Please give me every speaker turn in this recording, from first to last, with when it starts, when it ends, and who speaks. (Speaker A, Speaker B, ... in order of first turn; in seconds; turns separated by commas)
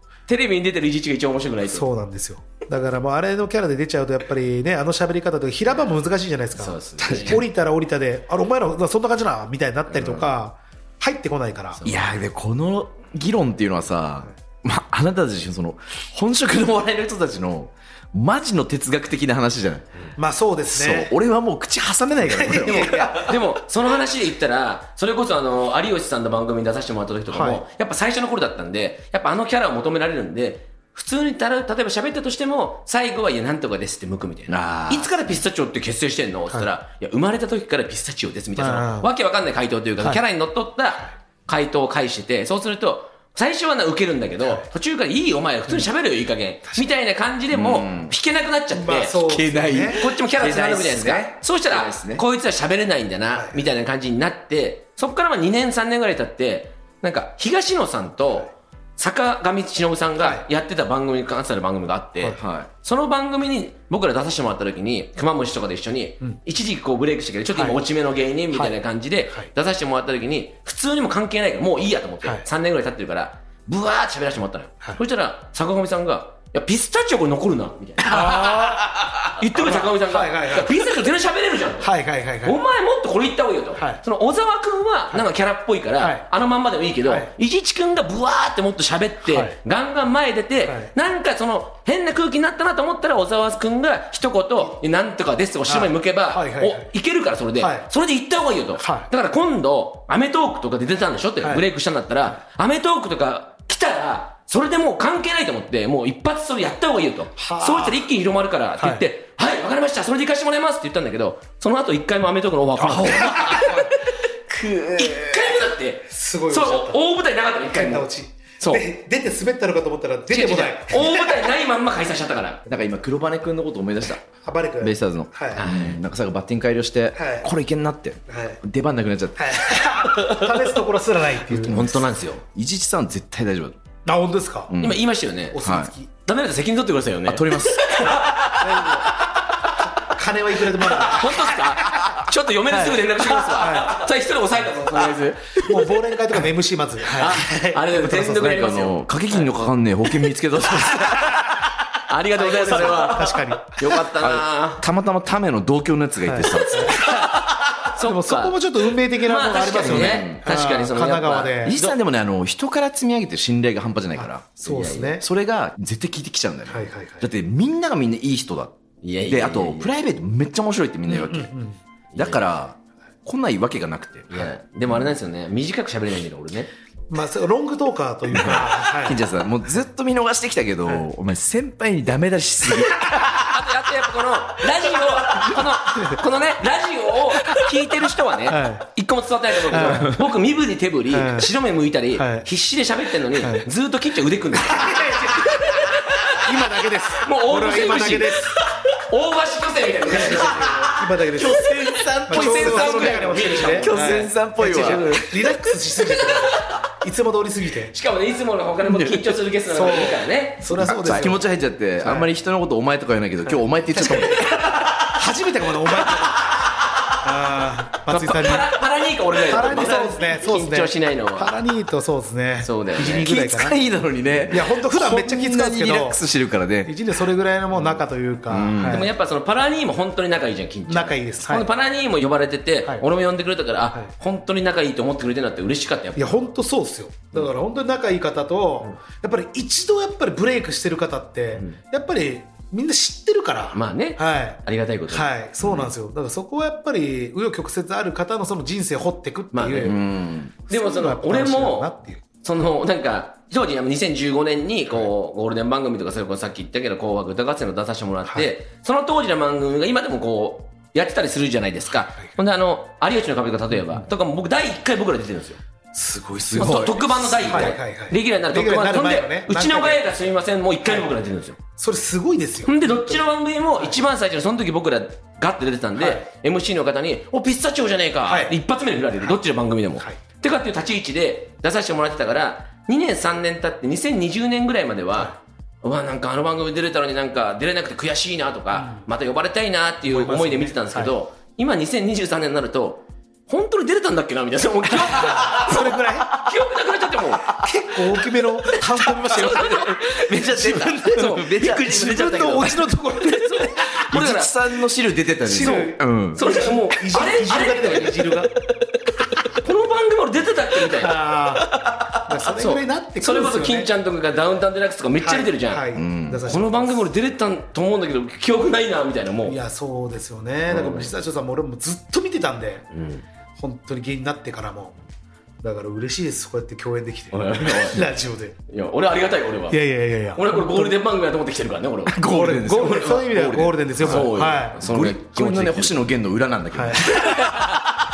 Speaker A: 0.3-1.8, Speaker B: 1.7-11.8, Speaker A: 6.5-7.4, Speaker C: 7.0-7.4, Speaker A: 9.9-10.3, Speaker A: 11.7-12.1, Speaker C: 11.8-19.9, Speaker B: 20.1-21.1, Speaker C: 20.7-23.4, Speaker B: 22.3-23.3, Speaker A: 22.6-49.1, Speaker B: 27.3-27.6, Speaker C: 34.5-35.1, Speaker B: 38.6-39.1, Speaker C: 47.5-48.1, Speaker B: 48.7-50.0, Speaker C: 49.1-52.2, Speaker A: 49.9-78.5, Speaker B: 53.3-53.6, Speaker C: 62.4-62.7, Speaker B: 67.5-67.8, Speaker B: 78.0-78.9, Speaker C: 78.1-79.3, Speaker A: 79.3-81.9, Speaker B: 79.5-80.8, Speaker B: 81.8-82.6, Speaker A: 82.4-118.1, Speaker B: 86.0-86.2, Speaker B: 87.0-87.3, Speaker B: 89.2-89.5, Speaker B: 90.6-90.9, Speaker B: 95.7-96.9, Speaker B: 97.6-97.9, Speaker B: 98.8-99.1, Speaker B: 107.4-108.0, Speaker B: 108.8-109.0, Speaker B: 112.9-113.9, Speaker C: 113.0-113.8, Speaker C: 114.5-115.3, Speaker B: 116.1-117.0, Speaker B: 117.7-121.4, Speaker A: 120.3-122.6, Speaker C: 122.7-124.2, Speaker B: 124.4-125.7, Speaker C: 124.8-129.9, Speaker A: 125.5-126.0, Speaker B: 127.2-127.5, Speaker B: 128.3-128.6, Speaker B: 129.4-131.9, Speaker C: 131.5-133.8, Speaker A: 131.5-132.4, Speaker B: 134.1-134.7, Speaker C: 134.7-135.0, Speaker A: 134.8-135.6, Speaker B: 135.5-136.1, Speaker C: 135.6-135.9, Speaker A: 136.2-139.3, Speaker C: 137.2-138.3, Speaker B: 138.6-139.1, Speaker B: 139.9-141.9, Speaker A: 140.9-145.8, Speaker B: 142.7-144.0, Speaker B: 145.6-148.7, Speaker A: 147.1-149.0, Speaker C: 148.5-151.7, Speaker A: 150.9-151.3, Speaker A: 152.1-154.8, Speaker B: 152.4-154.0, Speaker C: 154.1-157.5, Speaker B: 156.2-157.1, Speaker A: 157.9-158.6, Speaker B: 158.0-161.8, Speaker A: 159.2-161.9, Speaker C: 159.8-160.4, Speaker C: 161.6-171.5, Speaker B: 164.2-165.2, Speaker A: 164.7-165.1, Speaker B: 166.7-167.3, Speaker A: 169.0-169.9, Speaker B: 171.1-171.8, Speaker A: 172.1-172.4, Speaker C: 172.2-174.5, Speaker A: 174.3-176.7, Speaker B: 177.1-179.2, Speaker C: 178.3-183.6, Speaker A: 183.3-196.4, Speaker B: 188.5-188.8, Speaker B: 189.7-190.2, Speaker C: 189.8-190.2, Speaker B: 191.1-191.5, Speaker B: 192.1-192.5, Speaker B: 193.4-193.7, Speaker B: 194.6-195.6, Speaker B: 196.3-198.6, Speaker A: 197.2-198.4, Speaker A: 199.0-200.7, Speaker B: 200.1-207.9, Speaker C: 200.2-206.3, Speaker A: 201.8-204.1, Speaker A: 204.7-205.2, Speaker A: 207.9-211.2, Speaker C: 208.8-209.3, Speaker B: 209.7-211.5, Speaker C: 210.7-215.2, Speaker B: 212.0-212.3, Speaker B: 213.4-216.6, Speaker B: 217.2-218.8, Speaker A: 218.1-221.5, Speaker B: 219.4-223.8, Speaker A: 222.6-223.3, Speaker C: 223.1-226.9, Speaker B: 224.5-226.2, Speaker B: 226.8-229.1, Speaker C: 228.5-229.1, Speaker A: 228.9-236.4, Speaker B: 230.9-231.7, Speaker B: 236.2-250.0, Speaker A: 243.7-245.3, Speaker C: 245.6-245.9, Speaker A: 249.5-250.0, Speaker C: 249.8-250.5, Speaker A: 250.7-251.9, Speaker B: 250.7-252.2, Speaker A: 252.4-265.6, Speaker B: 265.9-270.1, Speaker C: 266.5-267.0, Speaker A: 266.5-271.6, Speaker B: 271.8-273.2, Speaker A: 272.6-297.5, Speaker B: 275.9-276.2, Speaker B: 278.2-278.6, Speaker B: 288.7-289.0, Speaker B: 290.0-291.1, Speaker B: 295.0-296.4, Speaker B: 297.5-303.9, Speaker C: 299.0-302.7, Speaker A: 299.2-300.2, Speaker A: 301.0-304.5, Speaker C: 303.8-306.4, Speaker B: 305.4-308.5, Speaker A: 305.6-308.4, Speaker A: 309.5-311.2, Speaker B: 310.9-313.9, Speaker A: 312.5-315.9, Speaker B: 315.2-317.0, Speaker C: 315.9-316.5, Speaker A: 316.5-319.6, Speaker B: 319.4-322.9, Speaker A: 320.7-321.1, Speaker A: 322.9-323.2, Speaker B: 323.6-325.0, Speaker B: 325.6-328.6, Speaker A: 327.3-328.1, Speaker A: 328.7-329.8, Speaker B: 329.7-331.0, Speaker A: 330.3-332.2, Speaker C: 332.1-337.9, Speaker B: 332.2-334.8, Speaker A: 332.8-333.2, Speaker A: 334.0-336.0, Speaker B: 336.7-337.1, Speaker A: 337.2-337.8